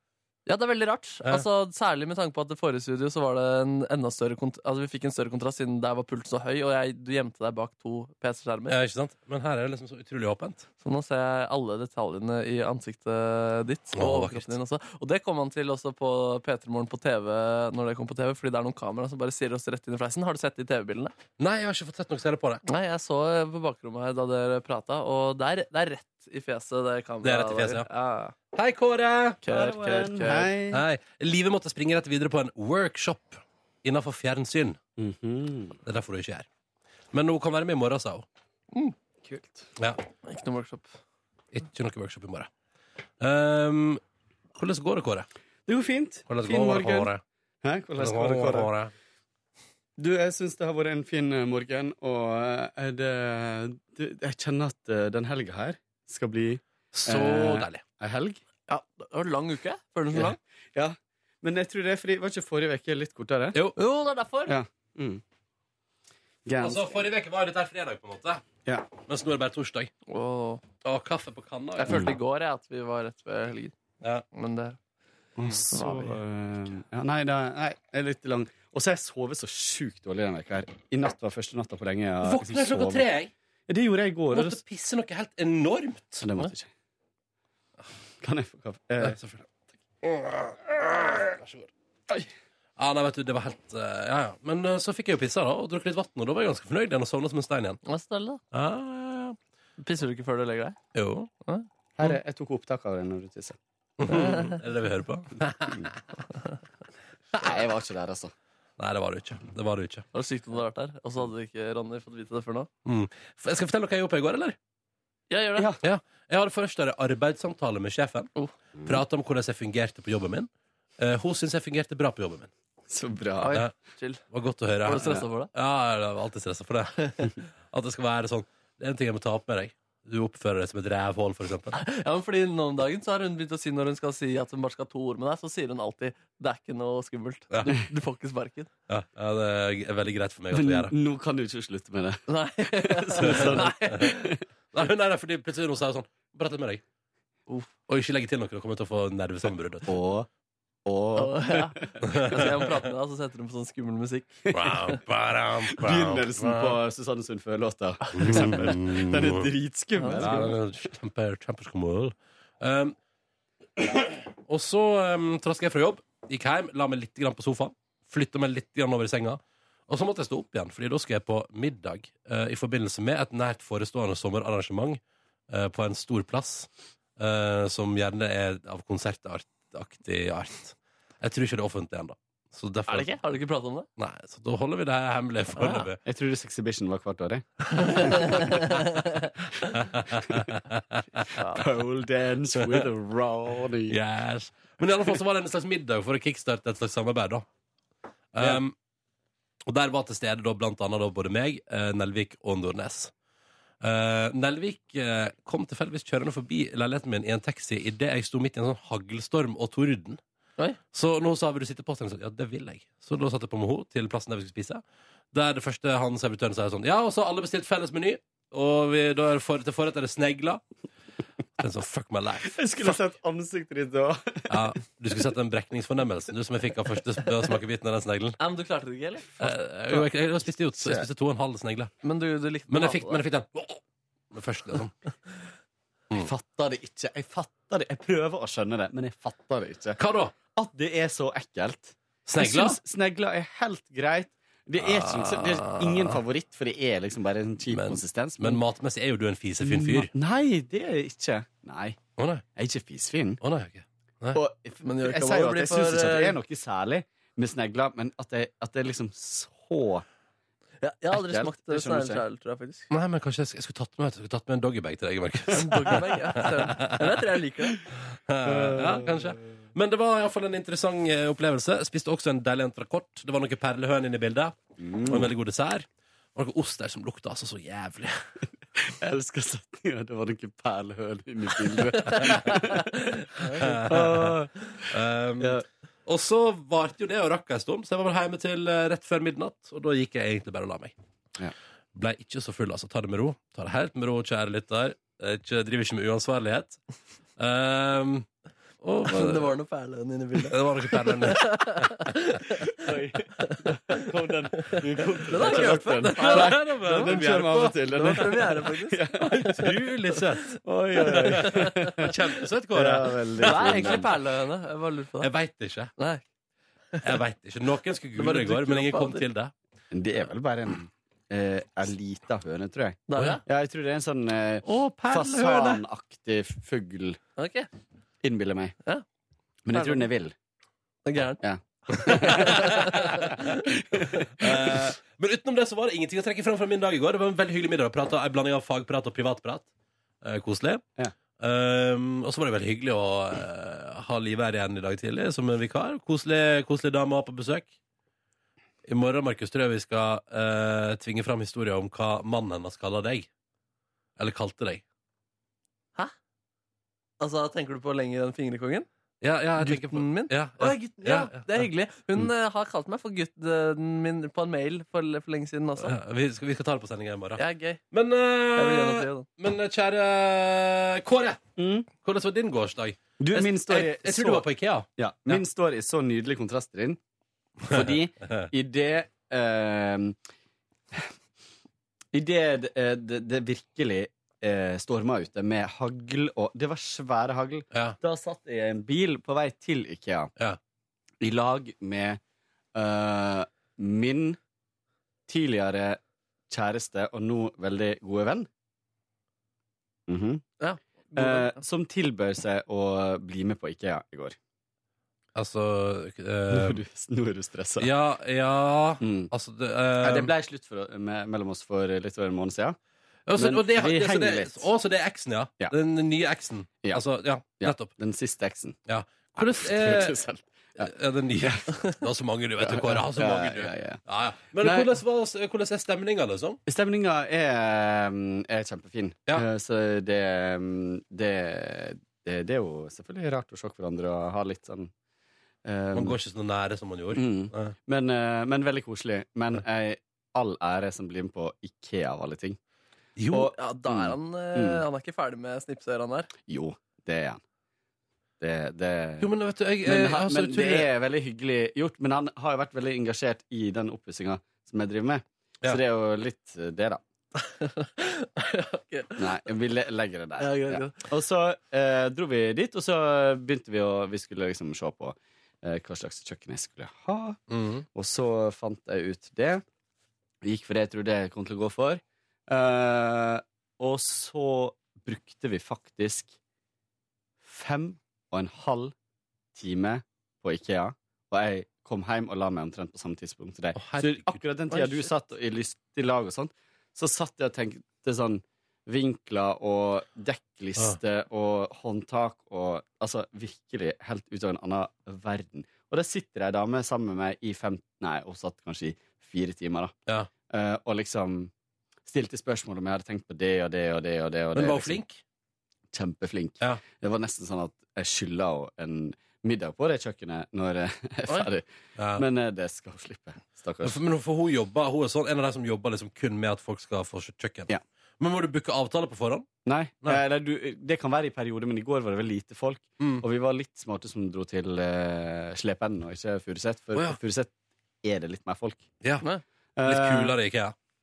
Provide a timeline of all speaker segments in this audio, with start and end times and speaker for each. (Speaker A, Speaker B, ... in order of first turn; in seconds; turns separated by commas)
Speaker A: 0.5-8.8, Speaker B: 8.7-10.7, Speaker A: 10.8-21.1, Speaker B: 14.0-14.5, Speaker B: 21.4-22.6, Speaker A: 22.7-28.4, Speaker B: 27.2-27.9, Speaker B: 28.5-29.4, Speaker A: 29.4-30.5, Speaker C: 29.5-30.8, Speaker B: 30.7-34.8, Speaker C: 35.0-35.8, Speaker B: 35.9-36.5, Speaker B: 37.1-38.3, Speaker C: 39.2-39.7, Speaker A: 40.2-40.9, Speaker B: 41.5-42.5, Speaker B: 43.2-44.0, Speaker B: 44.6-45.3, Speaker C: 45.7-47.1, Speaker B: 46.3-47.2, Speaker C: 47.6-48.7, Speaker B: 48.0-48.9, Speaker C: 50.0-58.4, Speaker B: 56.9-57.8, Speaker A: 58.7-60.4, Speaker C: 60.1-63.6, Speaker A: 63.8-64.6, Speaker C: 64.5-65.2, Speaker C: 66.5-67.0, Speaker B: 66.6-68.5, Speaker C: 68.7-68.9, Speaker B: 69.0-69.9, Speaker A: 70.1-70.6, Speaker B: 70.8-72.2, Speaker A: 71.8-73.8, Speaker A: 74.3-74.8, Speaker B: 75.4-75.6, Speaker C: 75.4-83.0, Speaker A: 75.7-76.2, Speaker B: 82.2-83.3, Speaker C: 83.7-84.6, Speaker B: 84.3-86.3, Speaker C: 86.2-86.7, Speaker C: 88.2-89.2, Speaker B: 89.0-89.4, Speaker B: 90.0-91.7, Speaker B: 92.8-97.8, Speaker A: 97.9-98.4, Speaker B: 98.5-99.4, Speaker A: 99.8-100.8, Speaker B: 101.0-101.3, Speaker C: 102.0-103.6, Speaker B: 104.0-106.0, Speaker A: 104.1-104.6, Speaker B: 107.3-107.6, Speaker C: 107.4-108.3, Speaker B: 108.8-110.1, Speaker A: 110.1-112.7, Speaker B: 112.8-114.6, Speaker A: 115.3-115.7, Speaker C: 115.6-115.8, Speaker B: 115.8-118.3, Speaker B: 118.8-122.5, Speaker C: 122.9-123.6, Speaker A: 123.4-124.2, Speaker B: 124.3-131.8, Speaker A: 124.8-125.5, Speaker C: 124.9-125.2, Speaker A: 127.0-127.3, Speaker A: 131.7-138.7, Speaker B: 137.5-137.8, Speaker B: 138.9-140.9, Speaker C: 140.5-144.4, Speaker A: 142.3-144.3, Speaker B: 143.2-144.1, Speaker B: 144.7-146.8, Speaker B: 147.9-149.9, Speaker C: 149.9-150.3, Speaker C: 150.9-152.1, Speaker A: 151.2-154.5, Speaker B: 152.0-152.7, Speaker B: 154.5-156.8, Speaker C: 155.7-160.5, Speaker A: 158.1-158.7, Speaker B: 158.2-159.5, Speaker A: 160.0-160.5, Speaker B: 160.2-163.0, Speaker B: 163.8-183.1, Speaker A: 182.9-183.9, Speaker B: 184.0-186.0, Speaker A: 185.6-185.9, Speaker C: 186.0-188.7, Speaker A: 188.0-189.2, Speaker B: 189.7-191.3, Speaker C: 190.1-190.5, Speaker A: 191.3-191.6, Speaker C: 191.4-194.0, Speaker B: 193.9-197.4, Speaker B: 198.3-198.8, Speaker B: 199.7-203.1, Speaker B: 203.8-210.2, Speaker B: 210.9-220.6, Speaker B: 221.6-223.0, Speaker C: 222.5-224.7, Speaker B: 224.5-228.4, Speaker A: 228.4-229.3, Speaker C: 229.4-230.1, Speaker B: 229.4-231.9, Speaker C: 230.8-231.1, Speaker A: 232.0-233.2, Speaker B: 232.7-233.8, Speaker B: 234.3-234.9, Speaker C: 236.1-240.0, Speaker B: 240.0-240.3, Speaker C: 240.6-248.6, Speaker B: 242.3-242.8, Speaker B: 244.8-246.1, Speaker B: 247.7-250.1, Speaker C: 249.6-252.0, Speaker B: 252.2-252.4, Speaker C: 252.6-253.4, Speaker B: 253.4-254.4, Speaker C: 254.3-260.1, Speaker A: 254.8-256.4, Speaker A: 260.8-262.9, Speaker C: 261.1-262.2, Speaker B: 262.9-267.2, Speaker A: 265.5-267.8, Speaker B: 268.3-274.6, Speaker C: 268.4-269.3, Speaker C: 274.8-275.3, Speaker B: 275.1-278.1, Speaker C: 278.8-284.5, Speaker A: 283.4-283.8, Speaker B: 283.6-290.9, Speaker B: 291.9-296.8, Speaker B: 297.4-298.3, Speaker B: 298.8-299.5, Speaker A: 299.1-302.7, Speaker B: 300.4-302.1, Speaker C: 302.8-309.5, Speaker A: 305.3-307.2, Speaker B: 305.4-308.7, Speaker A: 307.9-309.8, Speaker B: 309.2-314.1, Speaker C: 310.6-312.2, Speaker A: 311.0-311.9, Speaker C: 312.7-314.1, Speaker A: 313.4-315.3, Speaker B: 315.2-315.9, Speaker A: 316.0-316.2, Speaker A: 316.9-317.2, Speaker B: 317.0-319.5, Speaker A: 318.2-319.3, Speaker C: 319.9-327.2, Speaker A: 323.1-323.4, Speaker B: 324.6-325.8, Speaker A: 327.4-327.7, Speaker C: 328.2-328.8, Speaker C: 329.7-330.3, Speaker A: 329.7-330.0, Speaker A: 331.1-333.4, Speaker C: 331.4-332.7, Speaker B: 332.1-333.6, Speaker C: 333.5-334.9, Speaker B: 334.4-339.7, Speaker B: 340.2-340.9, Speaker B: 341.4-347.7, Speaker B: 348.9-353.3, Speaker B: 354.2-354.8, Speaker A: 357.2-358.9, Speaker B: 359.2-361.7, Speaker A: 359.6-365.9, Speaker B: 365.8-371.4, Speaker A: 367.4-367.8, Speaker A: 368.6-369.3, Speaker C: 371.6-371.9, Speaker B: 372.0-375.4, Speaker C: 373.2-377.0, Speaker C: 377.7-380.2, Speaker B: 377.7-378.5, Speaker C: 382.1-390.3, Speaker B: 387.7-388.0, Speaker C: 391.2-392.2, Speaker C: 392.8-394.4, Speaker C: 395.3-398.5, Speaker C: 400.1-400.4, Speaker A: 400.6-401.6, Speaker C: 401.1-404.4, Speaker B: 405.4-406.8, Speaker C: 406.5-407.9, Speaker B: 407.8-410.3, Speaker C: 409.0-409.3, Speaker C: 410.0-412.8, Speaker B: 413.3-417.9, Speaker C: 413.4-414.7, Speaker C: 416.8-418.8, Speaker B: 418.9-420.2, Speaker C: 419.4-421.7, Speaker B: 420.8-426.6, Speaker C: 422.6-424.0, Speaker C: 424.6-424.9, Speaker C: 426.7-434.9, Speaker C: 435.6-436.2, Speaker B: 435.9-437.8, Speaker C: 437.1-442.6, Speaker B: 443.2-443.5, Speaker C: 443.3-444.8, Speaker A: 443.4-446.3, Speaker C: 446.4-447.4, Speaker C: 448.4-449.3, Speaker B: 449.2-450.9, Speaker C: 449.9-457.0, Speaker A: 457.4-459.3, Speaker C: 459.2-467.4, Speaker A: 460.4-461.0, Speaker B: 467.5-467.8, Speaker C: 467.9-469.6, Speaker C: 470.4-476.4, Speaker C: 477.4-478.9, Speaker C: 479.6-499.9, Speaker B: 483.8-484.9, Speaker C: 500.5-501.5, Speaker C: 502.1-505.0, Speaker B: 504.6-505.2, Speaker C: 505.9-514.0, Speaker B: 512.0-512.2, Speaker B: 513.8-519.5, Speaker C: 519.6-527.5, Speaker B: 523.0-523.2, Speaker C: 528.0-528.9, Speaker C: 529.8-530.4, Speaker B: 529.9-530.8